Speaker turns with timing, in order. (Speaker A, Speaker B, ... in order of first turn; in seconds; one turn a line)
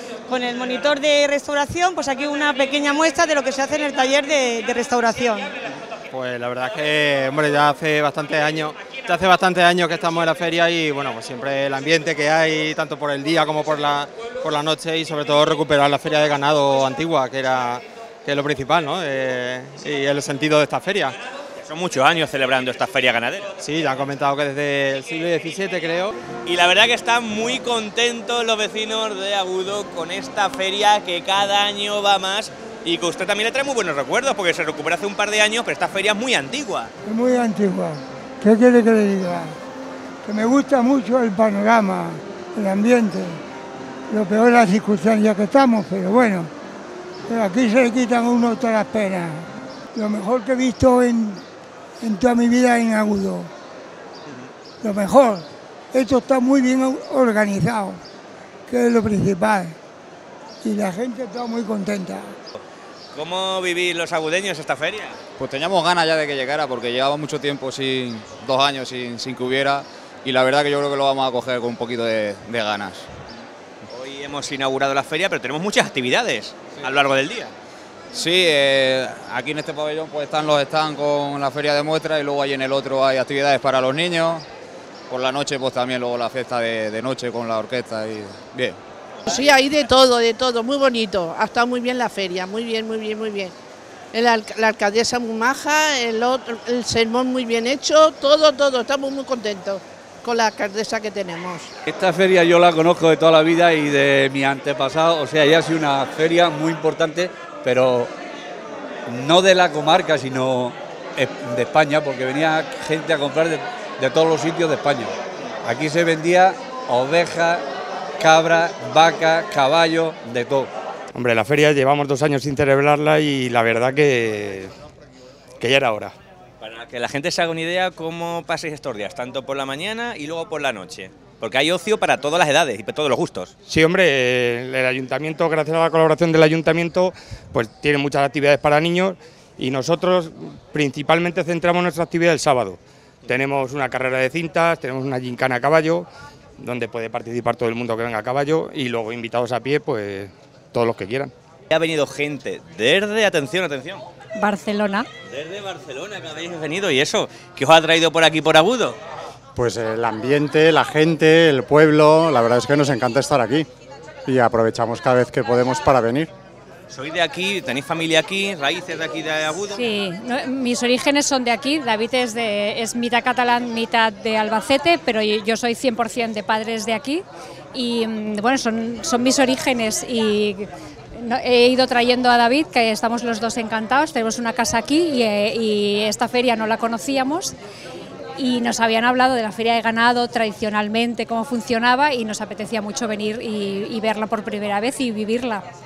Speaker A: 0.3-5.5
Speaker B: 6.1-21.1
Speaker C: 21.6-23.5
Speaker B: 23.6-26.1
Speaker C: 26.4-36.9
Speaker D: 37.0-39.5
Speaker D: 40.2-43.4
Speaker D: 44.1-46.5
Speaker D: 47.3-51.4
Speaker D: 52.0-53.5
Speaker D: 54.8-58.0
Speaker D: 58.7-59.8
Speaker D: 60.6-62.3
Speaker C: 63.1-65.2
Speaker E: 65.4-73.1
Speaker C: 73.9-77.5
Speaker E: 78.1-84.5
Speaker E: 85.1-88.8
Speaker F: 89.3-93.5
Speaker F: 94.1-101.7
Speaker G: 101.9-108.1
Speaker G: 109.1-115.1
Speaker G: 115.6-117.6
Speaker G: 118.2-120.7
Speaker H: 121.1-124.7
Speaker H: 125.6-126.1
Speaker C: 126.6-133.5
Speaker H: 133.7-146.1
Speaker H: 146.6-151.3
Speaker C: 151.7-154.0
Speaker I: 154.4-155.1
Speaker C: 155.3-159.0
Speaker J: 159.6-163.7
Speaker J: 164.2-166.3
Speaker C: 166.9-169.8
Speaker I: 169.7-177.2
Speaker I: 177.7-187.5
Speaker I: 188.4-195.6